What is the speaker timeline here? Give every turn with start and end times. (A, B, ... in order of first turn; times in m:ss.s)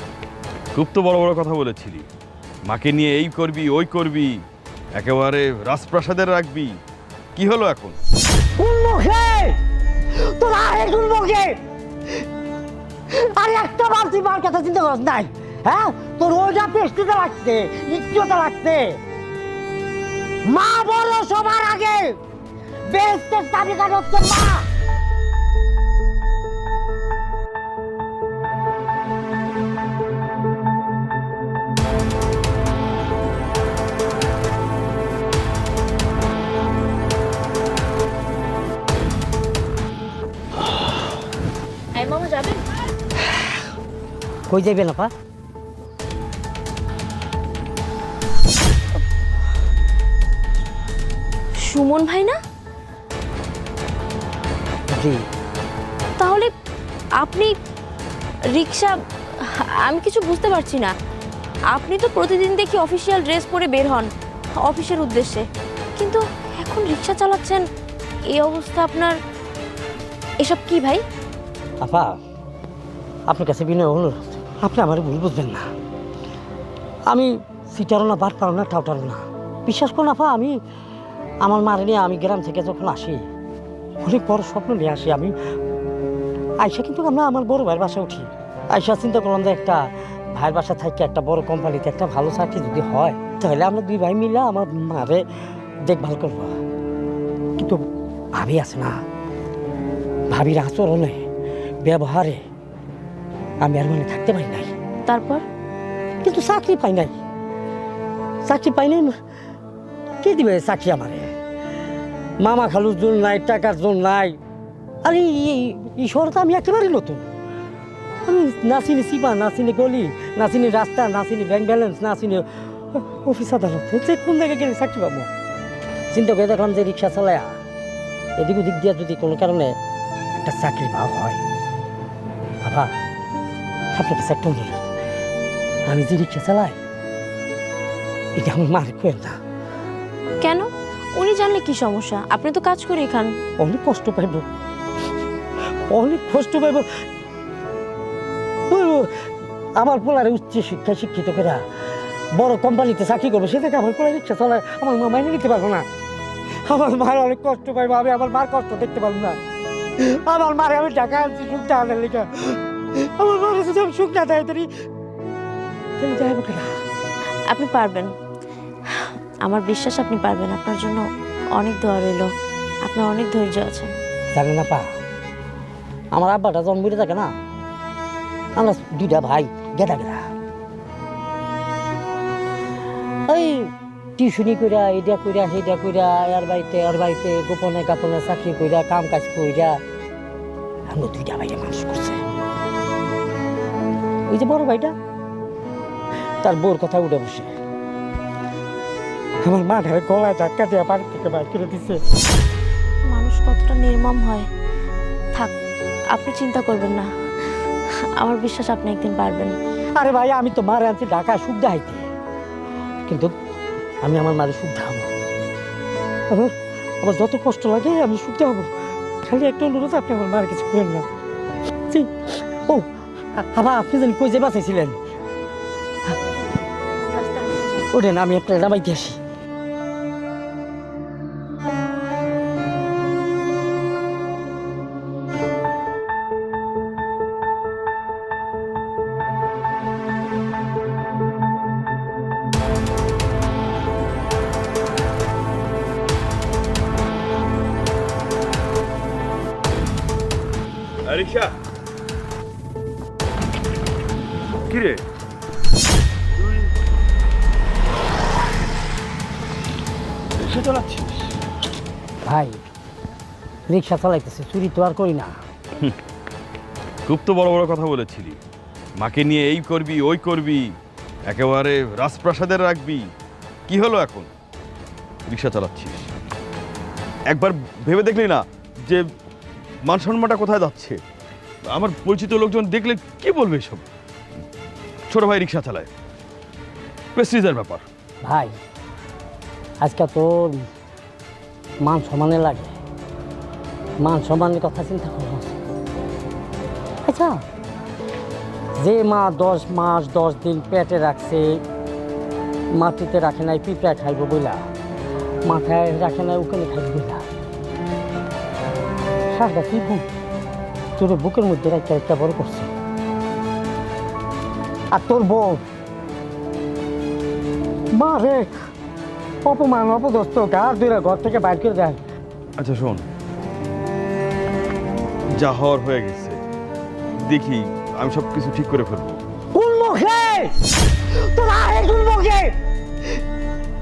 0:00.7-0:02.0 A
0:02.7-0:04.3 A
0:04.9-0:06.7 A
0:07.3-0:08.0 A
0:08.6-0:09.6 B
0:10.3-0:11.6 B
0:13.1-0:19.0 B
0:20.4-0:22.2 B
0:22.9-0:24.7 B
0:41.9-0:42.7 C
0:44.5-0:45.1 B
0:51.6-0:52.4 C
0:56.2-0:56.5 C
0:57.2-0:57.5 C
0:58.5-1:00.9 C
1:01.7-1:04.1 C
1:04.6-1:05.4 C
1:06.0-1:07.6 C
1:08.3-1:09.2 C
1:10.4-1:11.0 C
1:11.8-1:12.2 B
1:13.3-1:15.6 B
1:17.1-1:20.5 B
1:21.4-1:23.2 B
1:24.0-1:25.3 B
1:26.6-1:35.2 B
1:35.8-1:36.6 B
1:38.4-1:38.9 B
1:40.3-1:41.2 B
1:41.8-1:42.4 B
1:43.6-1:44.7 B
1:45.0-1:45.4 C
1:46.2-1:47.1 B
1:48.4-1:49.2 B
1:50.2-1:51.3 B
1:52.4-1:54.4 B
1:55.0-1:57.2 B
1:58.2-2:05.3 B
2:06.1-2:07.5 B
2:08.4-2:09.7 B
2:10.4-2:11.4 B
2:12.6-2:12.9 B
2:13.9-2:14.8 B
2:15.9-2:16.8 B
2:18.4-2:19.4 B
2:20.4-2:23.3 C
2:23.6-2:24.4 B
2:25.9-2:26.8 B
2:28.7-2:29.1 B
2:29.8-2:31.6 B
2:32.4-2:35.8 B
2:36.7-2:39.4 B
2:40.0-2:44.7 B
2:46.0-2:46.7 B
2:47.5-2:48.1 C
2:48.9-2:51.0 C
2:51.6-2:52.3 C
2:52.8-2:53.9 C
2:54.3-2:54.9 B
2:56.1-2:57.3 B
2:58.6-3:00.3 B
3:03.3-3:09.8 B
3:10.9-3:12.2 B
3:14.3-3:14.9 B
3:16.4-3:17.5 B
3:19.4-3:22.0 B
3:23.1-3:24.4 C
3:26.1-3:27.1 C
3:28.2-3:29.5 C
3:30.0-3:32.0 B
3:34.0-3:35.1 B
3:36.3-3:38.7 B
3:39.2-3:41.0 B
3:41.9-3:42.8 B
3:43.4-3:45.0 B
3:47.2-3:47.7 C
3:47.9-3:49.2 B
4:11.0-4:11.6 A
4:14.7-4:15.0 A
4:16.4-4:16.7 A
4:20.4-4:21.3 A
4:22.2-4:22.6 B
4:23.7-4:25.3 B
4:27.0-4:28.4 A
4:29.0-4:30.6 A
4:31.3-4:33.0 A
4:33.7-4:34.3 A
4:35.3-4:36.1 A
4:37.3-4:39.0 A
4:39.8-4:41.0 A
4:41.7-4:43.9 A
4:45.1-4:45.9 A
4:47.1-4:47.8 A
4:48.2-4:48.5 B
4:49.8-4:50.6 B
4:51.8-4:52.7 B
4:54.0-4:55.6 B
4:57.0-4:57.4 B
4:58.8-5:01.6 B
5:02.7-5:04.6 B
5:05.4-5:07.2 B
5:09.3-5:10.0 B
5:11.0-5:12.7 B
5:14.9-5:15.6 B
5:18.0-5:18.4 B
5:19.4-5:22.0 B
5:22.6-5:23.0 A
5:25.4-5:26.4 A
5:27.2-5:29.2 A
5:29.5-5:30.5 B
5:31.2-5:32.5 B